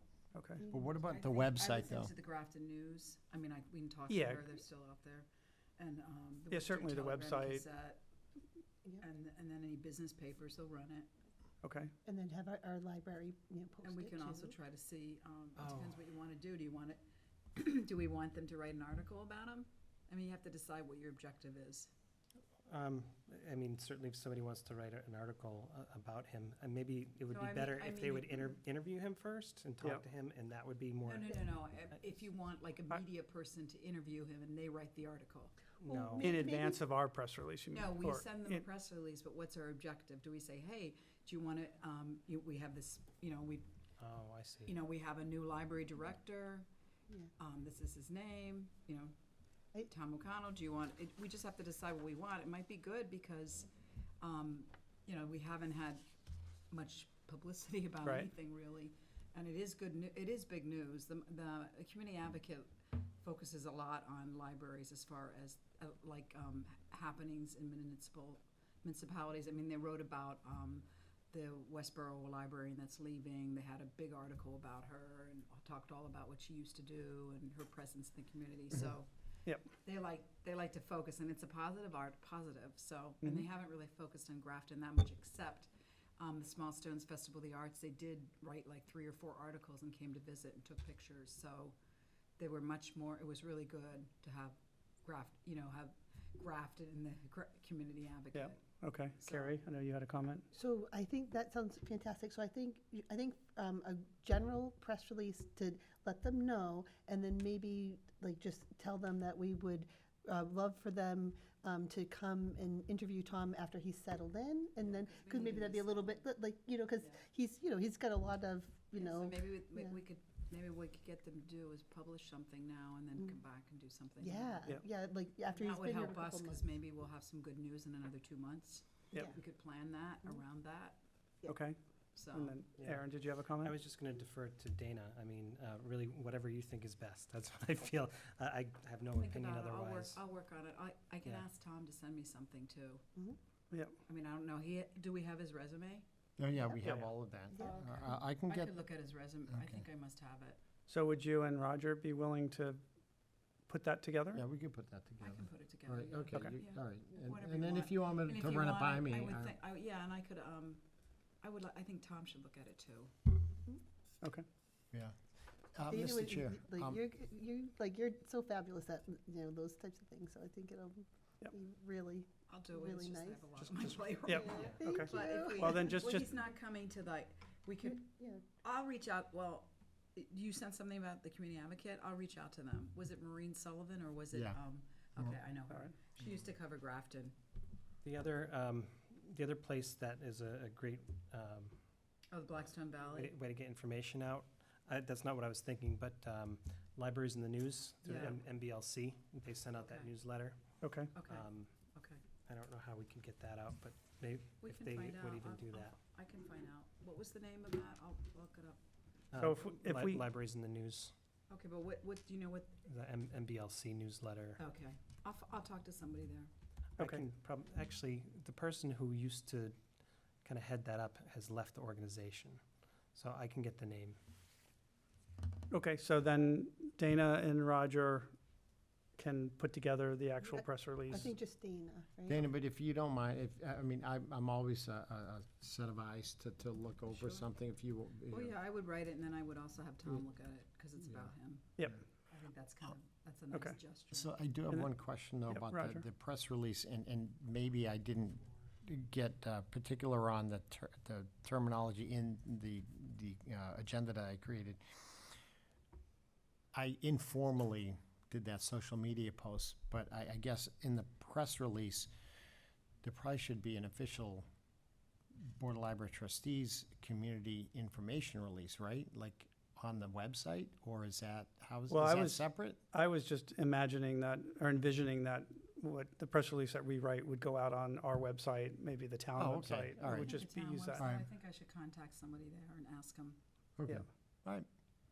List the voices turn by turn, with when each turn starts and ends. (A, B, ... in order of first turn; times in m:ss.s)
0:00.3-0:00.6 A
0:00.6-0:01.0 B
0:00.7-0:02.1 C
0:01.1-0:08.0 D
0:04.1-0:04.4 A
0:06.5-0:07.6 A
0:09.0-0:11.1 D
0:11.6-0:11.9 A
0:12.0-0:14.5 B
0:13.8-0:17.0 D
0:15.6-0:16.0 E
0:17.5-0:21.9 D
0:22.7-0:31.5 E
0:27.3-0:28.6 D
0:31.0-0:35.6 D
0:35.8-0:36.3 E
0:35.8-0:36.8 B
0:36.2-0:38.6 A
0:37.7-0:43.7 D
0:44.0-0:44.7 E
0:44.6-0:46.7 D
0:47.4-0:49.1 D
0:49.8-0:53.7 D
0:54.2-0:56.0 D
0:56.7-1:19.1 D
0:58.0-0:58.3 A
1:19.4-1:19.7 A
1:19.6-1:31.8 D
1:32.4-1:39.6 D
1:38.3-1:40.4 A
1:40.5-2:00.0 B
1:54.8-1:56.3 D
1:58.9-2:04.7 D
2:04.2-2:06.6 B
2:05.5-2:11.0 D
2:11.4-2:13.7 A
2:12.1-2:12.6 D
2:12.8-2:20.2 E
2:19.2-2:23.0 D
2:24.0-2:26.0 D
2:26.4-2:28.8 C
2:27.5-2:27.8 B
2:27.6-2:30.6 D
2:29.5-2:29.8 C
2:30.9-2:32.8 A
2:33.7-2:34.4 A
2:34.3-2:39.5 C
2:35.2-2:40.8 D
2:41.4-2:43.1 D
2:45.7-2:47.0 C
2:45.9-2:53.5 B
2:52.5-3:07.3 D
2:53.6-2:56.3 A
2:54.3-2:55.9 B
2:54.5-2:54.8 E
2:57.8-2:58.4 B
3:04.3-3:04.6 C
3:08.0-3:11.8 E
3:12.3-3:13.3 D
3:13.1-3:21.7 E
3:18.0-3:18.4 D
3:19.8-3:20.1 D
3:20.8-3:21.2 A
3:21.1-3:22.2 D
3:22.4-3:25.9 E
3:24.6-3:28.8 D
3:29.3-3:31.1 E
3:29.4-3:30.2 A
3:31.5-3:32.8 D
3:32.8-3:34.6 E
3:34.6-3:36.5 D
3:37.0-3:39.8 E
3:37.0-3:37.2 A
3:40.4-3:44.2 E
3:45.7-3:48.3 A
3:49.2-3:51.3 A
3:50.4-3:52.5 B
3:52.3-3:58.6 C
3:57.1-3:57.5 D
3:58.3-4:04.3 D
4:03.5-4:03.8 A
4:04.1-4:15.3 C
4:04.7-4:06.0 A
4:16.7-4:22.1 C
4:23.0-4:24.4 C
4:25.4-4:32.8 C
4:31.9-4:41.0 A
4:39.4-4:40.4 C
4:40.0-4:43.4 D
4:41.0-4:41.3 C
4:43.8-4:44.6 C